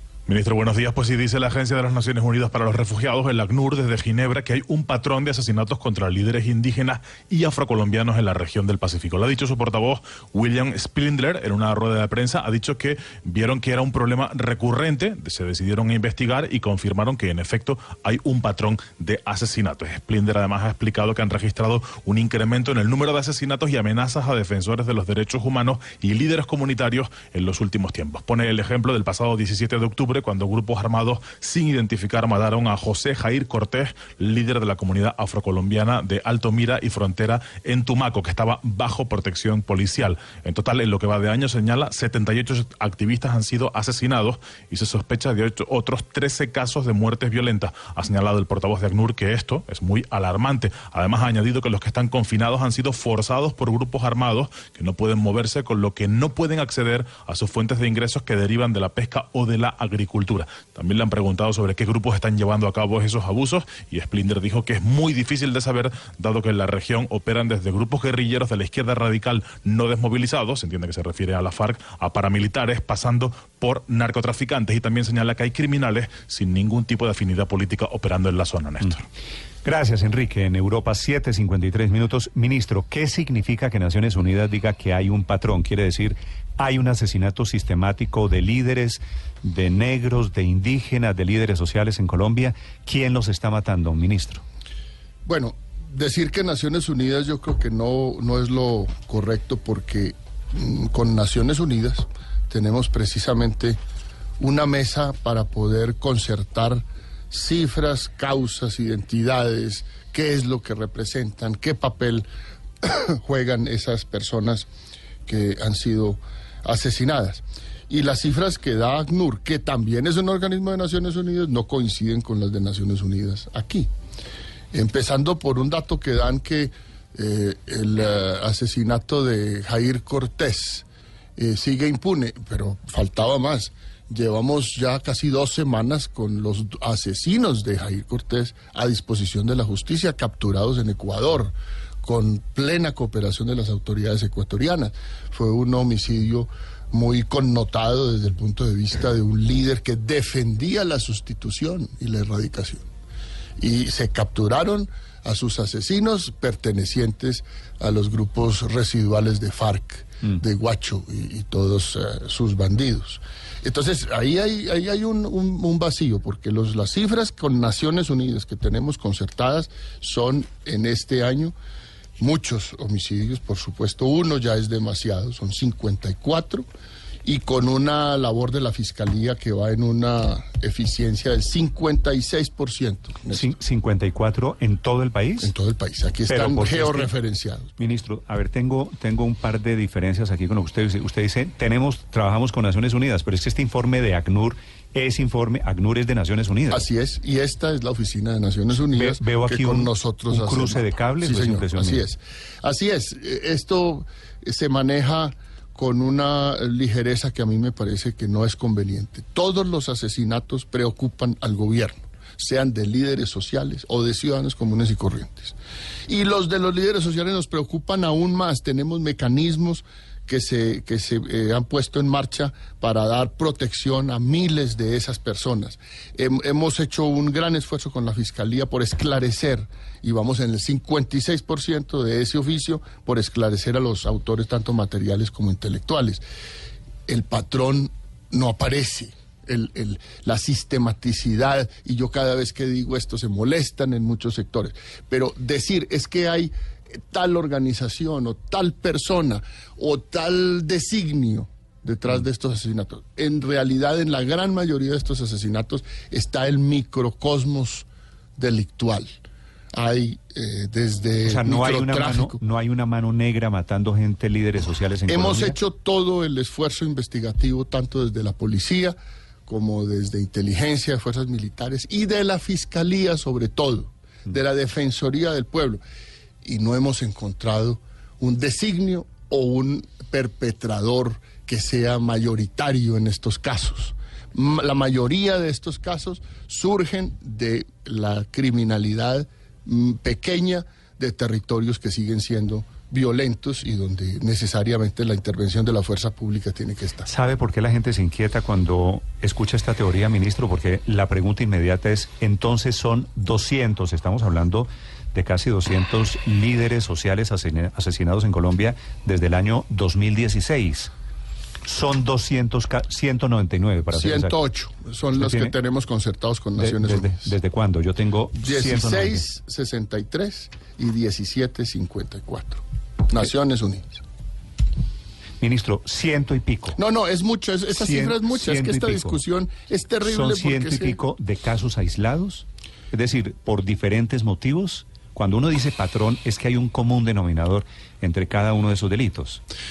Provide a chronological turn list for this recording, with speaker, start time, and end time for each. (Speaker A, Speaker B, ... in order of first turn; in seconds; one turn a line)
Speaker A: 0.3-79.0
Speaker B: 79.6-94.4
Speaker C: 95.2-103.8
Speaker C: 104.4-112.2
Speaker C: 112.8-114.7
Speaker C: 115.2-123.9
Speaker C: 124.7-130.8
Speaker C: 131.4-152.8
Speaker C: 153.6-171.5
Speaker C: 172.2-176.6
Speaker C: 177.2-183.5
Speaker B: 183.3-185.5
Speaker C: 185.4-187.7
Speaker B: 186.3-187.1
Speaker B: 187.8-196.8
Speaker C: 196.7-215.6
Speaker B: 198.9-202.0
Speaker C: 216.1-236.2
Speaker C: 237.1-246.5
Speaker C: 247.1-259.2
Speaker C: 259.7-262.4
Speaker B: 261.2-265.5
Speaker C: 265.1-268.9
Speaker C: 269.5-275.8
Speaker C: 276.4-297.1
Speaker B: 297.0-310.9
Speaker B: 311.6-314.3
Speaker C: 313.9-317.4
Speaker B: 315.1-315.5
Speaker B: 316.6-319.2
Speaker C: 318.4-324.0
Speaker B: 325.4-326.8
Speaker C: 326.7-331.0
Speaker B: 327.7-329.2
Speaker B: 330.0-339.4